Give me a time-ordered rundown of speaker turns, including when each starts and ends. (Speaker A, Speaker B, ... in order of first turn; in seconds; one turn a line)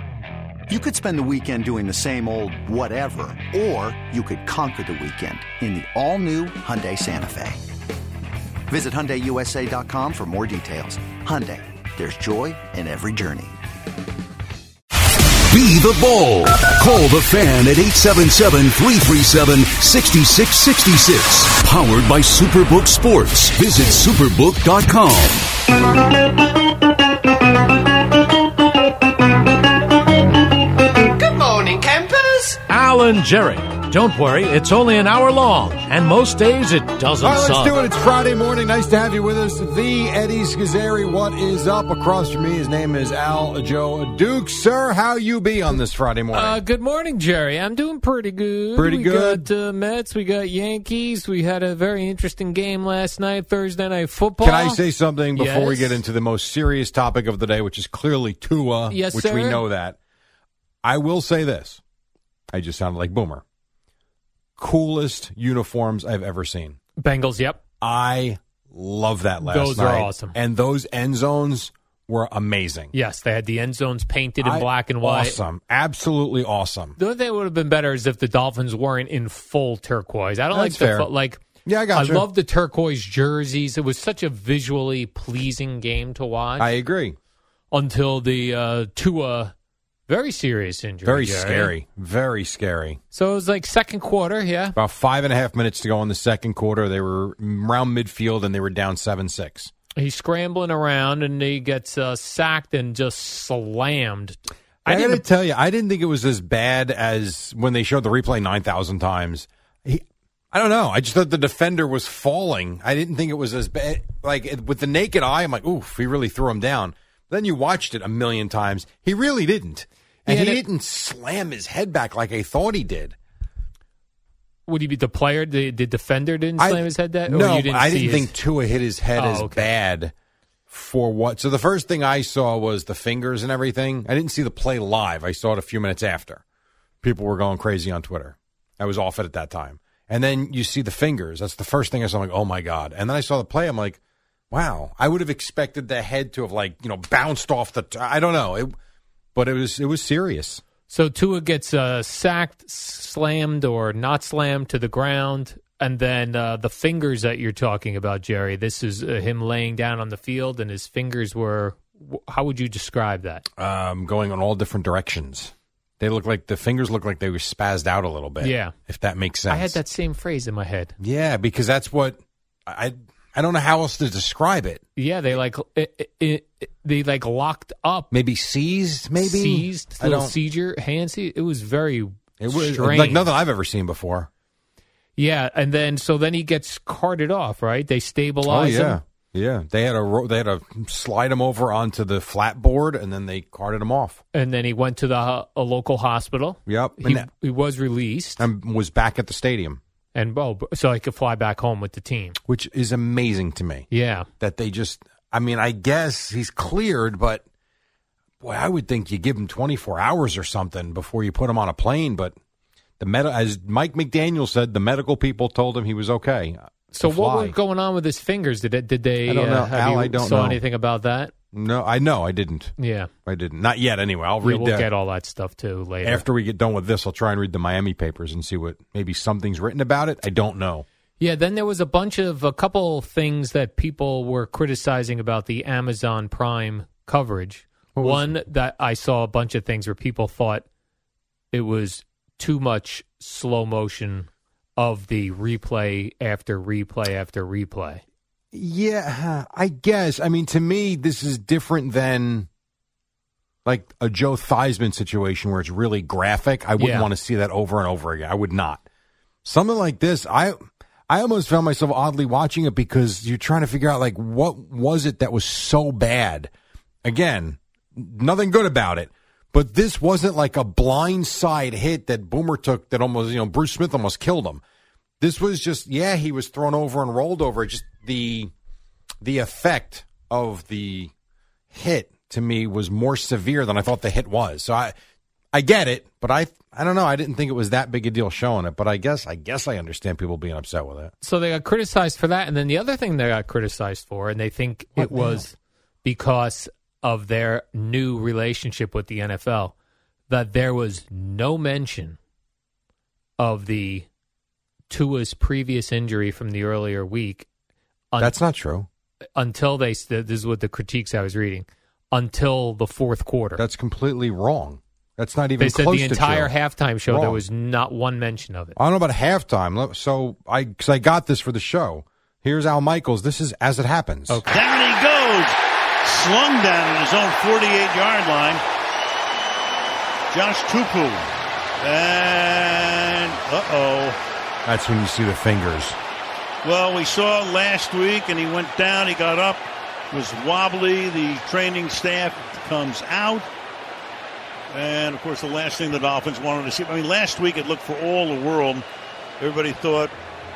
Speaker A: 0.7-7.6
Speaker A: 8.7-13.6
Speaker B: 15.5-25.4
Speaker C: 30.9-37.7
Speaker D: 37.2-46.6
Speaker E: 46.3-56.0
Speaker D: 48.8-49.5
Speaker D: 54.4-60.0
Speaker E: 58.9-59.6
Speaker D: 60.8-61.8
Speaker D: 62.5-63.4
Speaker D: 64.6-66.8
Speaker E: 67.0-67.6
Speaker D: 67.8-72.9
Speaker E: 69.4-70.3
Speaker E: 72.9-75.4
Speaker D: 74.4-77.0
Speaker E: 77.0-81.4
Speaker D: 80.5-81.1
Speaker D: 81.6-82.3
Speaker E: 81.9-86.7
Speaker D: 86.6-87.2
Speaker E: 87.7-89.5
Speaker E: 90.1-91.7
Speaker D: 91.0-93.0
Speaker E: 93.1-94.8
Speaker D: 94.8-99.7
Speaker E: 100.0-105.2
Speaker D: 104.8-123.2
Speaker E: 120.3-120.6
Speaker E: 124.7-128.3
Speaker D: 126.6-130.1
Speaker E: 129.1-129.7
Speaker D: 130.7-136.4
Speaker D: 137.0-144.0
Speaker D: 144.5-148.7
Speaker D: 149.3-150.6
Speaker E: 150.9-163.4
Speaker D: 163.6-169.8
Speaker E: 168.4-168.7
Speaker E: 169.5-170.9
Speaker D: 171.0-174.8
Speaker E: 174.9-178.1
Speaker D: 178.1-180.3
Speaker E: 179.2-183.3
Speaker D: 182.4-184.3
Speaker E: 185.2-189.0
Speaker D: 188.4-194.2
Speaker E: 194.3-198.4
Speaker D: 196.7-197.3
Speaker D: 198.4-199.8
Speaker E: 200.1-202.4
Speaker D: 202.4-203.9
Speaker E: 203.9-204.3
Speaker D: 204.4-207.4
Speaker D: 208.4-212.3
Speaker D: 213.0-217.6
Speaker E: 216.9-221.3
Speaker D: 219.2-220.6
Speaker D: 221.5-222.7
Speaker E: 222.8-223.1
Speaker D: 223.2-224.9
Speaker E: 224.4-226.2
Speaker D: 226.0-230.8
Speaker E: 231.2-240.7
Speaker D: 237.9-238.3
Speaker E: 241.5-248.0
Speaker D: 248.5-252.5
Speaker D: 253.6-258.8
Speaker E: 256.8-257.1
Speaker D: 259.4-260.6
Speaker D: 261.1-266.5
Speaker D: 267.0-274.6
Speaker D: 275.2-278.5
Speaker D: 279.2-281.1
Speaker D: 281.7-284.9
Speaker D: 285.5-291.1
Speaker E: 291.2-299.7
Speaker D: 295.0-295.4
Speaker E: 300.3-302.2
Speaker E: 303.4-304.1
Speaker E: 304.9-307.5
Speaker D: 308.2-308.9
Speaker E: 309.3-313.6
Speaker D: 313.6-316.5
Speaker E: 315.6-318.8
Speaker D: 317.1-317.4
Speaker D: 318.8-324.4
Speaker E: 324.3-324.6
Speaker F: 324.5-328.6
Speaker F: 330.3-331.3
Speaker F: 331.8-334.2
Speaker D: 334.6-336.0
Speaker F: 336.6-343.5
Speaker F: 344.7-348.8
Speaker F: 349.4-350.1